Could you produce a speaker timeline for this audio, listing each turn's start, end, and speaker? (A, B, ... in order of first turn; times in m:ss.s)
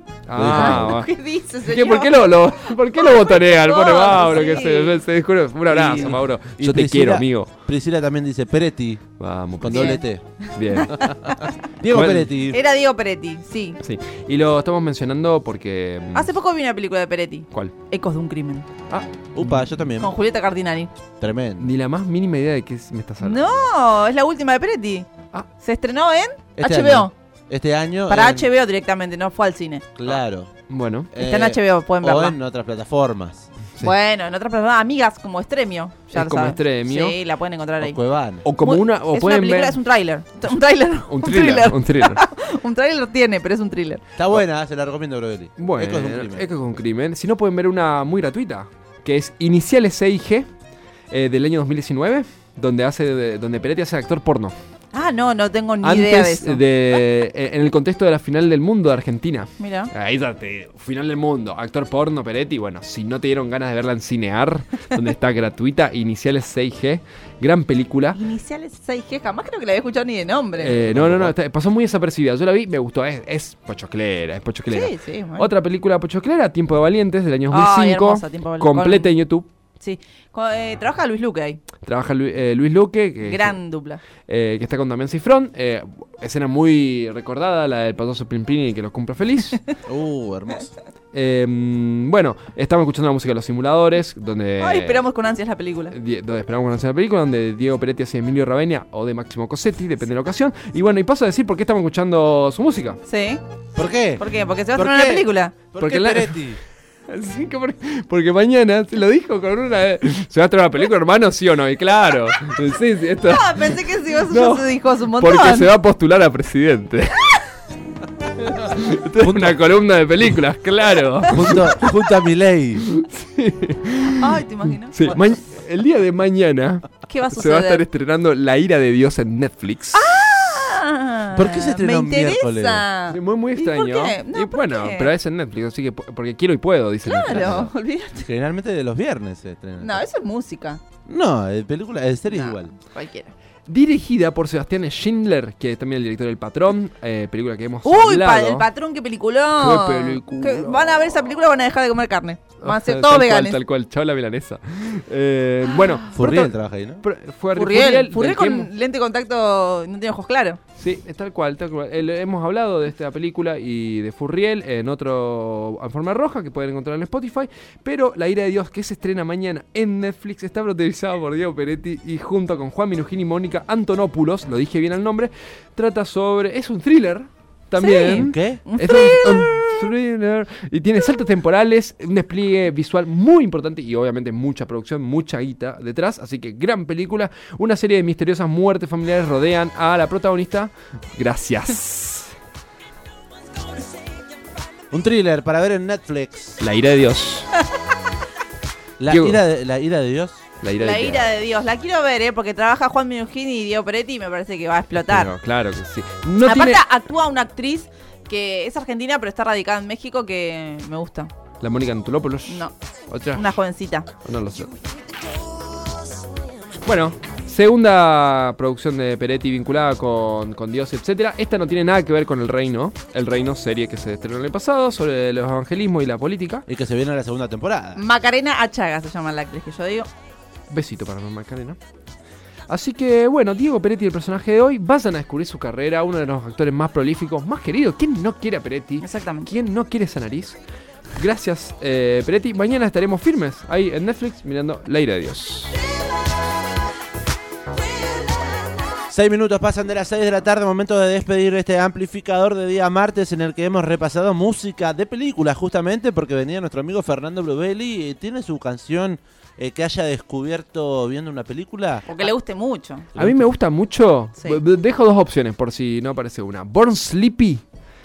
0:00.3-0:01.1 A
0:00.4-0:00.9 B
0:00.4-0:02.3 C
0:01.7-0:07.5 A
0:03.0-0:05.0 C
0:05.7-0:09.0 B
0:09.2-0:10.0 A
0:09.6-0:10.2 B
0:09.7-0:10.8 C
0:10.6-0:11.1 A
0:10.9-0:12.6 B
0:11.9-0:12.3 A
0:12.5-0:13.8 C
0:13.8-0:16.3 A
0:16.1-0:18.7 C
0:18.9-0:19.7 A
0:19.3-0:20.1 B
0:20.0-0:20.9 C
0:21.2-0:21.7 B
0:21.6-0:23.7 A
0:23.2-0:25.1 C
0:25.6-0:27.1 C
0:26.6-0:28.5 B
0:28.1-0:29.8 C
0:30.0-0:30.5 B
0:30.7-0:31.1 A
0:31.1-0:33.5 B
0:31.2-0:32.4 C
0:33.8-0:38.0 C
0:36.1-0:37.2 A
0:37.8-0:38.4 B
0:38.4-0:39.8 A
0:38.6-0:44.0 C
0:41.1-0:42.2 A
0:44.2-0:46.5 B
0:45.6-0:50.5 A
0:51.1-0:54.6 A
0:54.9-0:56.6 C
0:55.8-1:08.2 A
0:59.6-0:59.9 C
1:08.1-1:10.8 C
1:10.6-1:19.5 A
1:10.9-1:11.3 B
1:14.7-1:15.5 C
1:17.5-1:19.1 C
1:19.8-1:21.6 C
1:21.8-1:23.6 A
1:23.2-1:24.0 C
1:24.3-1:29.6 A
1:29.9-1:30.7 B
1:31.1-1:35.0 A
1:34.6-1:36.0 C
1:35.9-1:43.0 A
1:43.1-1:43.4 C
1:43.8-1:46.6 B
1:44.2-1:45.5 C
1:45.8-1:46.4 A
1:47.1-1:53.8 A
1:53.3-1:55.7 C
1:54.3-1:57.4 A
1:58.5-2:01.8 A
1:59.2-1:59.6 B
2:01.3-2:02.9 B
2:02.9-2:04.4 A
2:04.1-2:05.2 C
2:04.9-2:10.1 A
2:07.1-2:07.8 C
2:09.9-2:15.1 C
2:11.3-2:12.8 B
2:13.1-2:17.7 A
2:17.0-2:18.3 C
2:18.2-2:20.0 B
2:19.8-2:20.8 C
2:21.1-2:22.7 B
2:22.3-2:23.3 C
2:23.7-2:28.7 A
2:27.8-2:33.6 C
2:29.6-2:30.9 A
2:32.6-2:38.7 A
2:36.2-2:37.0 B
2:37.6-2:40.6 C
2:40.8-3:12.3 A
2:57.8-2:59.8 C
2:58.2-2:58.6 B
3:14.9-3:16.6 B
3:16.6-3:17.5 A
3:19.0-3:20.4 B
3:19.1-3:19.4 A
3:20.6-3:21.3 A
3:20.8-3:25.3 C
3:25.0-3:26.8 A
3:26.4-3:31.3 C
3:31.6-3:33.4 A
3:32.5-3:32.7 C
3:33.3-3:34.1 C
3:34.2-3:34.7 A
3:36.8-3:46.6 A
3:46.7-3:48.0 B
3:48.0-3:50.1 C
3:50.7-3:51.8 A
3:52.7-4:00.6 A
3:59.0-3:59.5 C
4:01.2-4:05.8 A
4:09.1-4:22.1 B
4:22.1-4:23.1 C
4:23.2-4:23.5 B
4:23.2-4:27.6 A